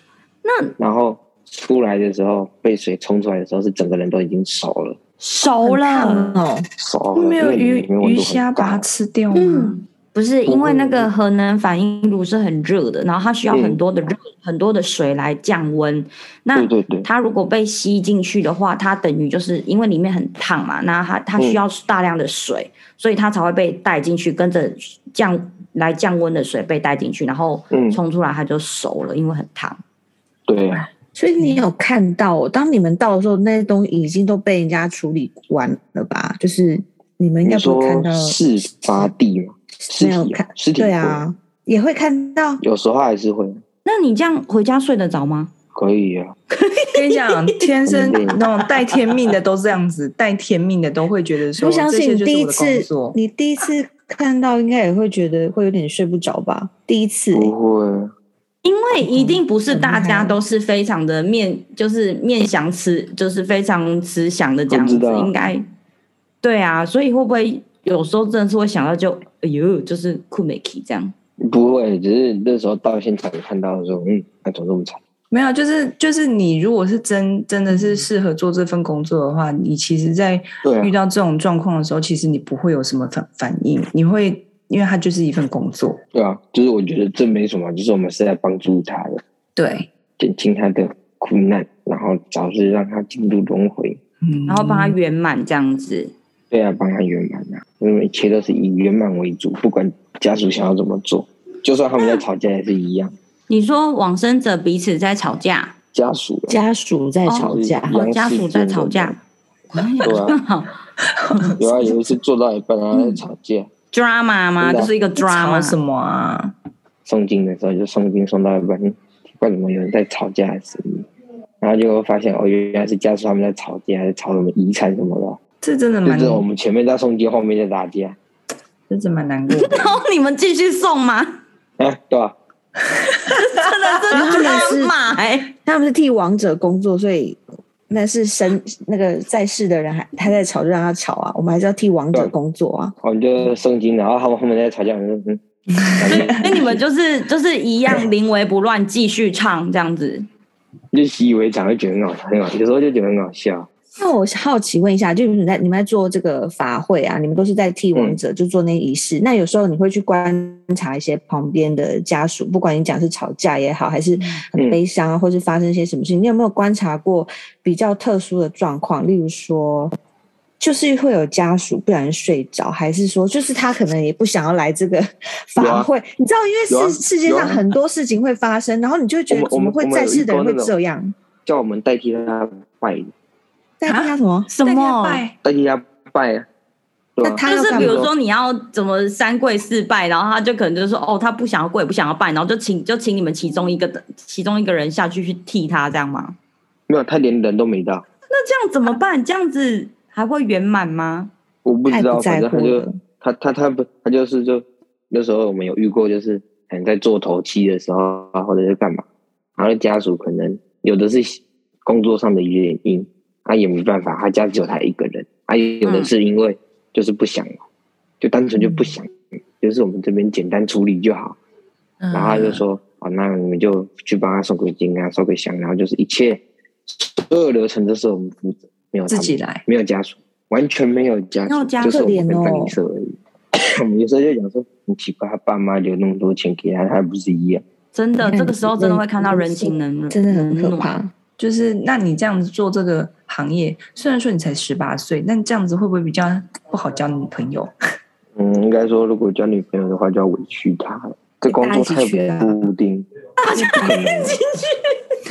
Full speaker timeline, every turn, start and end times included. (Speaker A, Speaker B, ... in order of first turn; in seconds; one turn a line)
Speaker A: 0.4-0.7
Speaker B: 0.8-5.0
Speaker A: 5.2-6.4
Speaker C: 5.6-6.7
Speaker B: 6.8-8.8
Speaker D: 7.1-9.8
Speaker A: 9.3-29.8
Speaker B: 10.4-11.1
Speaker B: 13.5-13.8
Speaker B: 16.5-17.1
Speaker B: 27.7-28.0
Speaker B: 30.5-30.9
Speaker C: 31.1-38.4
Speaker B: 37.4-41.2
Speaker C: 39.9-42.6
Speaker B: 42.6-43.6
Speaker A: 43.8-45.5
Speaker B: 45.7-46.3
Speaker A: 46.5-47.7
Speaker D: 46.9-53.2
Speaker B: 47.9-48.4
Speaker A: 48.3-49.3
Speaker C: 51.6-57.5
Speaker B: 57.3-58.1
Speaker A: 58.6-65.7
Speaker C: 59.7-60.3
Speaker B: 64.7-65.3
Speaker A: 66.4-71.1
Speaker B: 71.4-75.0
Speaker D: 75.3-86.0
Speaker B: 80.6-80.9
Speaker B: 86.1-89.2
Speaker D: 89.5-89.9
Speaker B: 90.2-94.0
Speaker D: 94.2-95.0
Speaker A: 94.5-96.1
Speaker B: 96.5-103.1
Speaker A: 103.5-105.7
Speaker B: 105.9-106.6
Speaker C: 106.5-107.9
Speaker A: 107.2-109.2
Speaker B: 107.4-109.2
Speaker A: 109.7-110.7
Speaker B: 110.0-110.4
Speaker D: 111.0-111.6
Speaker B: 111.6-113.7
Speaker A: 113.9-115.8
Speaker B: 114.6-114.9
Speaker D: 115.2-116.5
Speaker B: 117.0-121.1
Speaker B: 121.6-125.4
Speaker D: 125.6-126.5
Speaker B: 126.0-128.2
Speaker D: 128.9-130.0
Speaker A: 129.5-131.4
Speaker B: 131.8-132.3
Speaker D: 133.0-134.3
Speaker A: 133.3-135.5
Speaker C: 134.1-134.9
Speaker C: 135.6-142.9
Speaker B: 143.0-146.8
Speaker D: 145.7-146.6
Speaker A: 146.1-150.2
Speaker B: 150.9-153.7
Speaker C: 154.0-169.9
Speaker B: 157.9-158.2
Speaker D: 164.2-164.4
Speaker C: 170.6-181.1
Speaker B: 175.6-175.9
Speaker B: 176.7-177.6
Speaker B: 179.3-180.7
Speaker B: 181.4-183.1
Speaker C: 183.8-184.5
Speaker D: 183.9-185.3
Speaker A: 184.5-185.2
Speaker B: 185.4-186.5
Speaker B: 187.2-188.1
Speaker C: 187.2-188.1
Speaker A: 187.4-196.4
Speaker B: 196.9-198.0
Speaker A: 198.3-201.3
Speaker B: 201.6-209.0
Speaker C: 201.9-203.0
Speaker B: 209.6-217.6
Speaker A: 215.8-216.1
Speaker B: 218.2-221.4
Speaker D: 218.6-218.9
Speaker D: 222.0-222.6
Speaker B: 222.1-237.6
Speaker D: 229.1-229.6
Speaker A: 231.4-232.0
Speaker C: 231.8-232.7
Speaker A: 237.9-240.9
Speaker C: 238.2-241.1
Speaker D: 241.4-247.7
Speaker B: 248.3-253.1
Speaker C: 251.4-252.6
Speaker A: 253.4-255.0
Speaker C: 253.5-254.3
Speaker B: 253.8-254.4